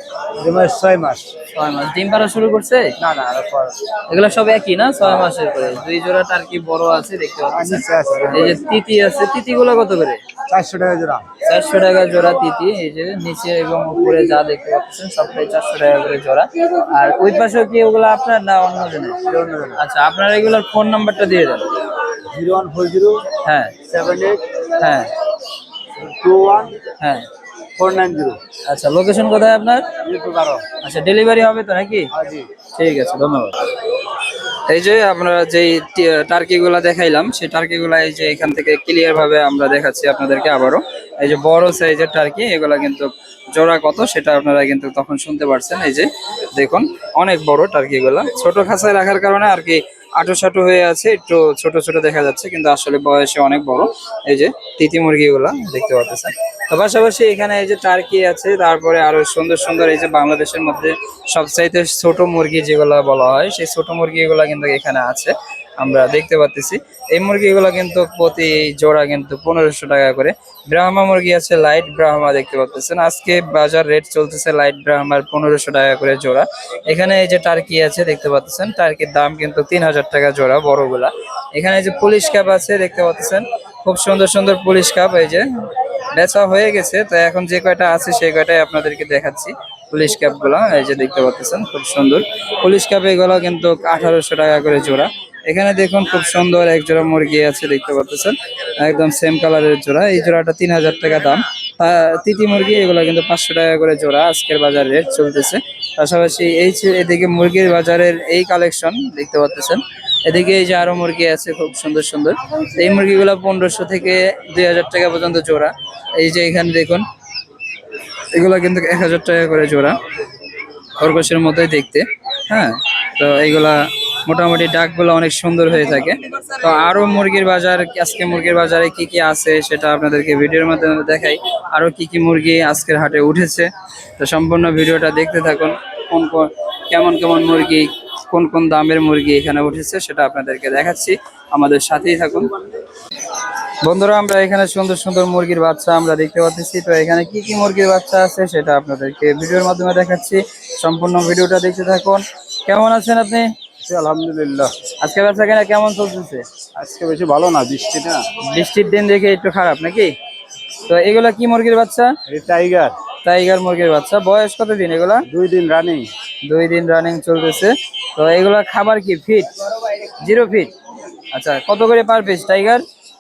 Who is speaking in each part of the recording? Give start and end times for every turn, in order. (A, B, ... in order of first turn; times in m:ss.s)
0:00.4-0:01.3 A
0:01.5-0:02.9 B
0:03.0-0:03.8 A
0:04.1-0:10.2 B
0:05.0-0:05.3 A
0:07.5-0:08.6 A
0:10.5-0:11.2 A
0:11.4-0:19.2 B
0:19.2-0:19.8 A
0:19.8-0:21.7 B
0:22.3-0:23.2 A
0:23.4-0:23.8 B
0:23.9-0:24.4 A
0:24.8-0:25.1 B
0:26.0-0:26.8 A
0:27.0-0:27.3 B
0:27.8-0:28.4 A
0:28.7-0:29.8 B
0:30.0-0:30.7 A
0:30.8-0:32.1 B
0:32.1-0:32.5 A
0:32.7-0:33.5 B
0:34.7-1:25.5 B
1:26.1-1:57.0 B
1:58.3-2:00.0 B
2:01.0-2:22.5 B
2:23.8-2:33.5 B
2:33.8-2:34.7 A
2:35.0-2:36.4 B
2:36.8-2:38.3 A
2:38.4-2:40.1 B
2:40.9-2:42.1 B
2:42.3-2:42.9 A
2:43.2-2:45.2 B
2:45.3-2:46.1 A
2:46.4-2:49.5 B
2:50.2-2:50.7 B
2:51.3-2:52.8 B